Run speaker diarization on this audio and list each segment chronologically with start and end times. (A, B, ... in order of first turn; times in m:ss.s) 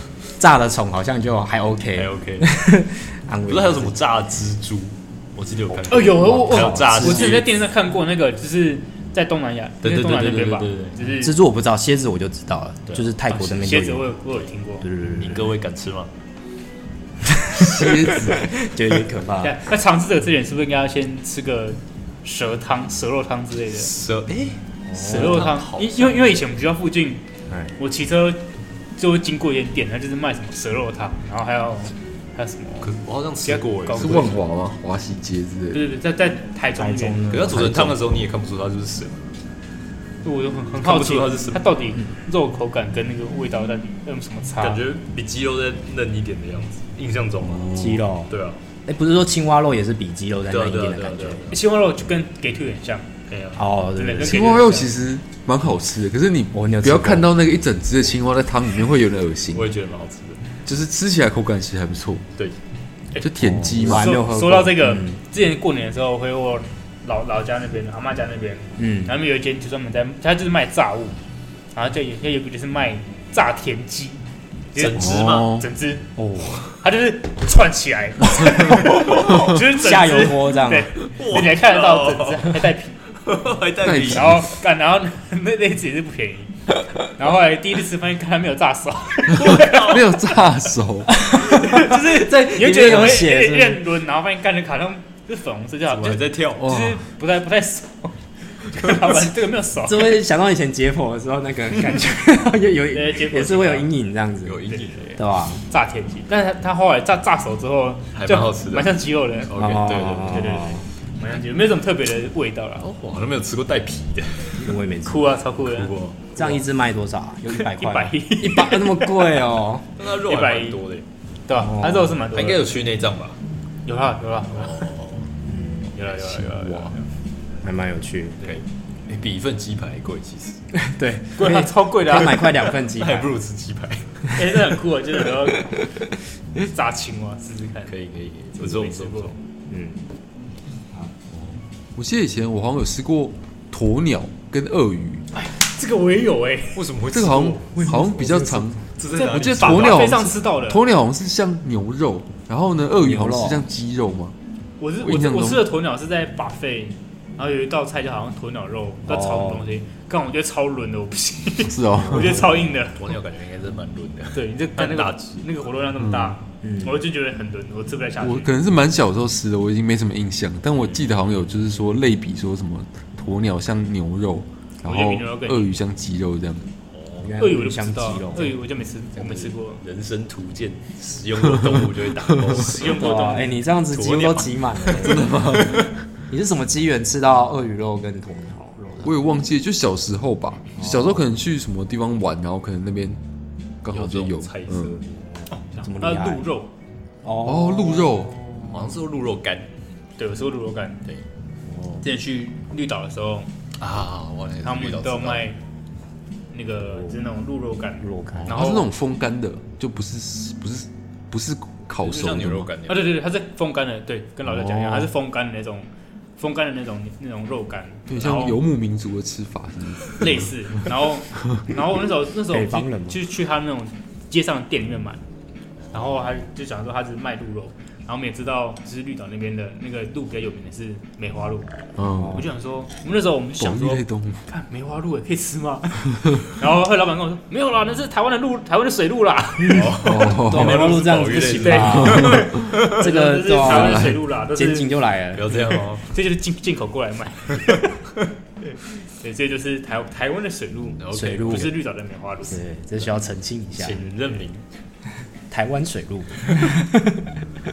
0:00.4-0:04.0 A
0:01.9-0:02.5 B
0:03.5-0:07.5 B
0:05.9-0:11.4 C
0:05.9-0:07.4 A
0:09.8-0:11.0 B
0:11.2-0:14.2 A
0:13.3-0:14.9 C
0:14.8-0:15.5 A
0:15.2-0:16.1 B
0:17.4-0:19.6 A
0:17.5-0:18.5 D
0:19.4-0:23.9 C
0:23.7-0:26.4 B
0:24.9-0:25.5 A
0:24.9-0:27.2 C
0:27.8-0:28.4 C
0:29.0-0:32.9 C
0:32.8-0:34.4 B
0:33.4-0:34.4 C
0:33.9-0:35.8 D
0:35.7-0:37.2 C
0:36.8-0:38.2 A
0:37.3-0:39.2 B
0:40.2-0:44.8 C
0:40.8-0:41.7 B
0:44.6-0:47.7 B
0:47.5-0:48.0 D
0:47.7-0:48.3 A
0:48.3-0:48.6 B
0:48.8-0:51.5 A
0:50.5-0:51.6 B
0:51.5-0:53.1 C
0:53.3-0:53.6 B
0:53.6-0:54.6 A
0:53.9-0:55.0 C
0:54.2-0:59.7 D
0:56.5-0:57.3 A
0:59.5-1:00.4 B
1:00.6-1:02.2 D
1:03.2-1:04.1 D
1:03.4-1:05.2 A
1:03.8-1:11.2 C
1:08.8-1:09.1 A
1:11.7-1:14.2 C
1:14.7-1:16.0 C
1:14.7-1:15.6 B
1:14.9-1:15.7 D
1:16.2-1:16.7 A
1:16.6-1:23.0 C
1:18.9-1:19.5 B
1:19.2-1:20.9 A
1:21.1-1:22.6 B
1:23.2-1:24.5 B
1:23.8-1:24.5 D
1:24.1-1:26.5 C
1:27.1-1:30.0 C
1:29.4-1:31.1 D
1:29.4-1:30.2 B
1:31.2-1:33.8 A
1:31.4-1:40.2 C
1:35.8-1:36.7 B
1:36.6-1:37.0 D
1:39.8-1:45.6 A
1:42.9-1:43.9 C
1:44.4-1:45.2 B
1:44.8-1:52.8 C
1:48.1-1:50.7 B
1:49.5-1:50.8 A
1:52.8-1:54.7 B
1:54.6-1:55.4 A
1:55.0-1:55.9 C
1:55.6-1:56.6 B
1:56.3-1:59.8 A
1:57.5-1:59.4 C
2:00.0-2:01.0 B
2:00.2-2:00.8 C
2:01.4-2:02.7 C
2:01.5-2:02.3 A
2:02.3-2:03.4 B
2:03.8-2:04.9 C
2:04.5-2:05.3 B
2:05.5-2:06.2 A
2:05.9-2:06.9 C
2:06.0-2:07.0 B
2:06.4-2:06.9 D
2:07.6-2:08.6 A
2:08.4-2:10.6 B
2:10.7-2:13.4 A
2:11.4-2:12.6 C
2:12.6-2:14.3 B
2:14.3-2:15.9 C
2:16.6-2:17.9 C
2:17.9-2:19.4 B
2:18.6-2:19.4 C
2:19.7-2:20.1 A
2:22.0-2:25.2 D
2:25.3-2:26.8 C
2:26.7-2:28.0 B
2:27.1-2:34.3 D
2:27.9-2:28.6 A
2:27.9-2:30.8 C
2:28.9-2:30.1 B
2:33.0-2:33.6 A
2:34.8-2:43.1 C
2:35.0-2:35.7 D
2:39.0-2:39.7 A
2:41.6-2:42.5 D
2:42.0-2:42.7 A
2:43.0-2:45.4 B
2:44.3-2:48.5 C
2:46.0-2:46.4 D
2:46.6-2:47.0 A
2:48.2-2:56.7 D
2:54.8-2:55.8 C
2:56.9-2:57.4 B
2:57.2-2:58.6 A
2:57.4-2:59.8 C
2:59.1-3:03.1 B
3:02.5-3:03.7 C
3:02.8-3:05.7 A
3:03.9-3:05.9 B
3:05.0-3:05.9 D
3:06.3-3:09.1 A
3:09.0-3:13.2 D
3:10.8-3:11.2 A
3:13.8-3:15.0 D
3:13.9-3:15.1 B
3:15.4-3:16.5 A
3:15.5-3:16.7 C
3:17.2-3:19.0 A
3:17.4-3:18.4 D
3:18.6-3:19.7 B
3:20.2-3:21.0 C
3:22.0-3:23.5 C
3:23.8-3:25.5 B
3:24.6-3:25.6 C
3:26.5-3:28.9 C
3:26.9-3:27.2 A
3:28.0-3:28.6 A
3:28.5-3:32.7 D
3:32.0-3:33.1 B
3:32.9-3:38.6 C
3:34.6-3:35.1 A
3:38.1-3:40.5 D
3:40.2-3:45.2 C
3:42.5-3:43.2 A
3:45.8-3:46.3 B
3:45.9-3:51.8 C
3:52.0-3:52.5 D
3:52.1-3:52.5 A
3:52.3-3:59.9 C
3:53.6-3:54.5 D
3:59.6-4:05.8 A
3:59.7-4:02.9 B
4:00.0-4:00.8 D
4:00.5-4:04.9 C
4:01.9-4:02.7 D
4:03.6-4:04.2 D
4:05.3-4:06.0 B
4:06.1-4:07.9 C
4:09.2-4:12.6 C
4:11.0-4:11.8 B
4:11.1-4:11.8 A
4:12.4-4:14.3 A
4:13.8-4:14.6 B
4:15.5-4:17.4 A